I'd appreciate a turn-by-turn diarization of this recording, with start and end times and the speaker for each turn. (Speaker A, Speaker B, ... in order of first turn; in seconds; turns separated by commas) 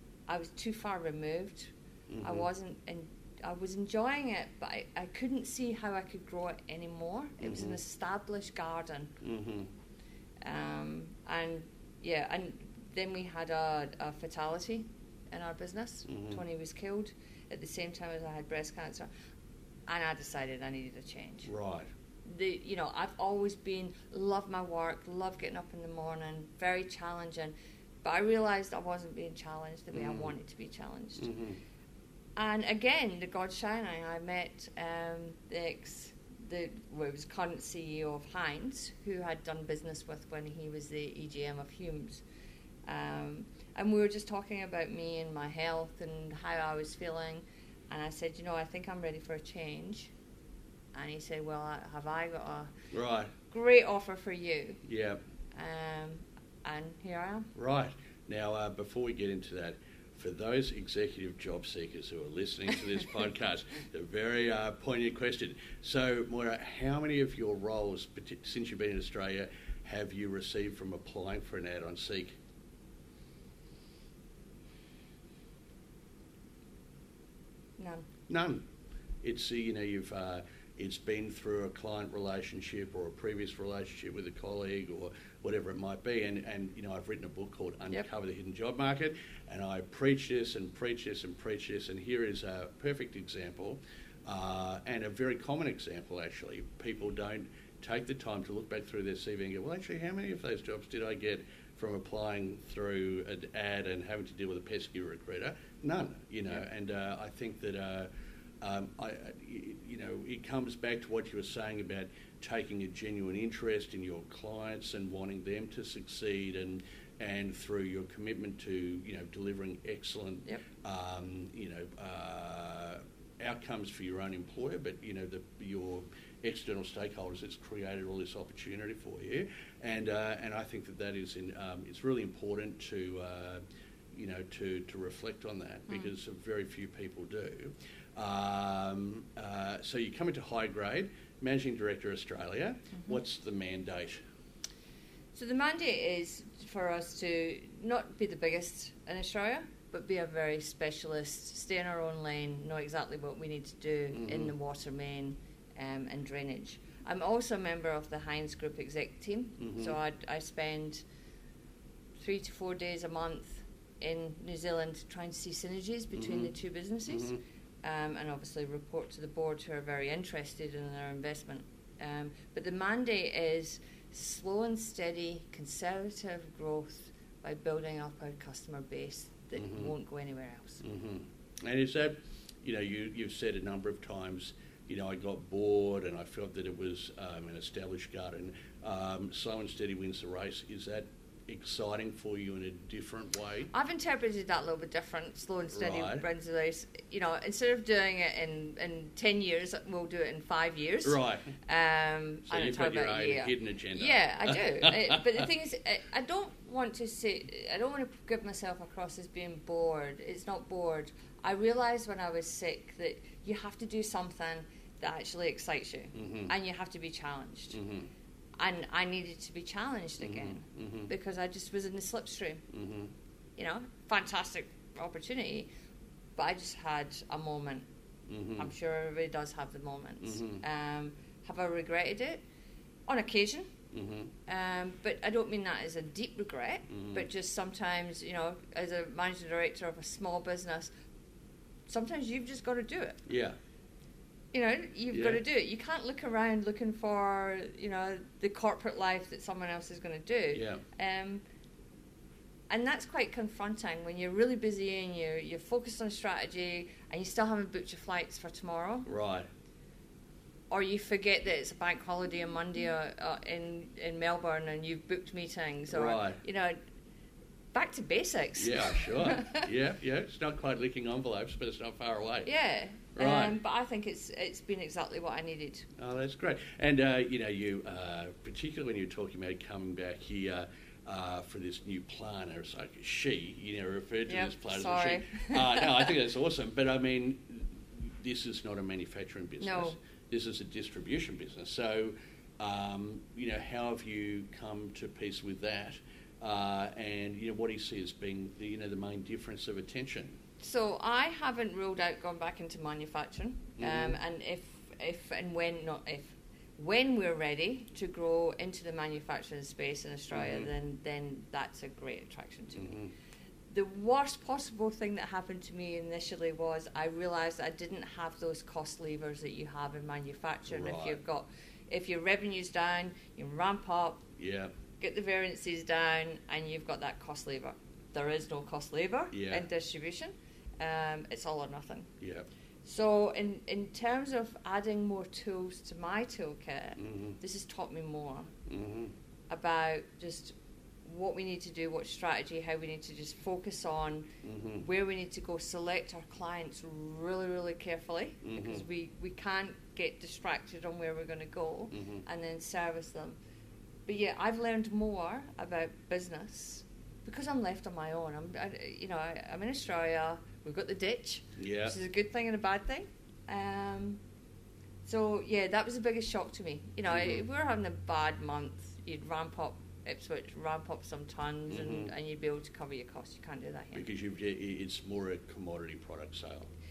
Speaker A: 0.3-9.2, Speaker B: 2.1-2.5, Speaker B: 7.4-7.8, Speaker B: 9.2-9.7, Speaker A: 10.4-19.1, Speaker B: 16.1-16.4, Speaker A: 19.9-21.5, Speaker B: 21.5-21.9, Speaker A: 22.2-31.3, Speaker B: 29.9-30.3, Speaker B: 31.2-31.6, Speaker A: 32.4-42.2, Speaker A: 42.9-50.1, Speaker A: 50.9-52.7, Speaker B: 52.9-53.3, Speaker A: 53.5-54.8, Speaker B: 54.9-55.2, Speaker A: 55.5-57.5, Speaker B: 57.5-72.4, Speaker A: 77.8-78.1, Speaker B: 78.3-78.7, Speaker B: 79.2-108.1, Speaker B: 108.6-144.2, Speaker A: 145.3-161.0, Speaker B: 154.1-154.5, Speaker B: 159.6-160.0, Speaker A: 162.2-180.8, Speaker B: 166.2-166.5, Speaker B: 167.1-167.4, Speaker B: 179.6-179.9, Speaker B: 180.8-193.7, Speaker A: 193.7-217.8, Speaker B: 195.7-196.2, Speaker B: 201.0-201.5, Speaker B: 202.5-205.4, Speaker B: 216.1-216.5, Speaker B: 217.7-218.1, Speaker A: 218.6-222.7, Speaker B: 220.2-221.1, Speaker B: 222.7-223.1, Speaker A: 223.6-225.7, Speaker A: 226.4-227.9, Speaker B: 228.3-228.7, Speaker A: 228.6-232.4, Speaker B: 230.2-230.6, Speaker A: 233.1-233.7, Speaker B: 233.9-234.3, Speaker A: 234.5-240.9, Speaker B: 236.9-237.2, Speaker A: 241.9-243.2, Speaker B: 243.3-243.6, Speaker A: 244.5-251.4, Speaker B: 245.1-245.4, Speaker B: 250.5-250.8, Speaker A: 252.7-259.1, Speaker B: 259.1-259.5, Speaker A: 260.7-266.8, Speaker B: 265.9-266.4, Speaker A: 267.7-269.7, Speaker B: 268.6-272.5, Speaker A: 272.4-275.9, Speaker B: 273.2-273.6, Speaker B: 276.0-300.4, Speaker A: 284.3-286.1, Speaker A: 289.6-290.0, Speaker A: 300.6-313.0, Speaker B: 303.8-304.2, Speaker B: 310.3-310.7, Speaker B: 312.8-313.1, Speaker A: 313.7-324.3, Speaker B: 320.7-321.2, Speaker B: 324.4-324.7, Speaker A: 325.0-332.1, Speaker B: 329.3-329.7, Speaker B: 332.2-332.5, Speaker A: 332.9-338.5, Speaker B: 337.0-337.4, Speaker B: 338.7-339.1, Speaker A: 339.5-340.5, Speaker A: 341.1-344.3, Speaker B: 344.4-344.9, Speaker A: 344.8-353.4, Speaker B: 348.4-348.9, Speaker B: 351.9-352.2, Speaker A: 354.1-364.2, Speaker B: 361.6-362.0, Speaker A: 365.1-374.1, Speaker B: 367.1-367.4, Speaker B: 371.7-372.1, Speaker B: 373.9-376.7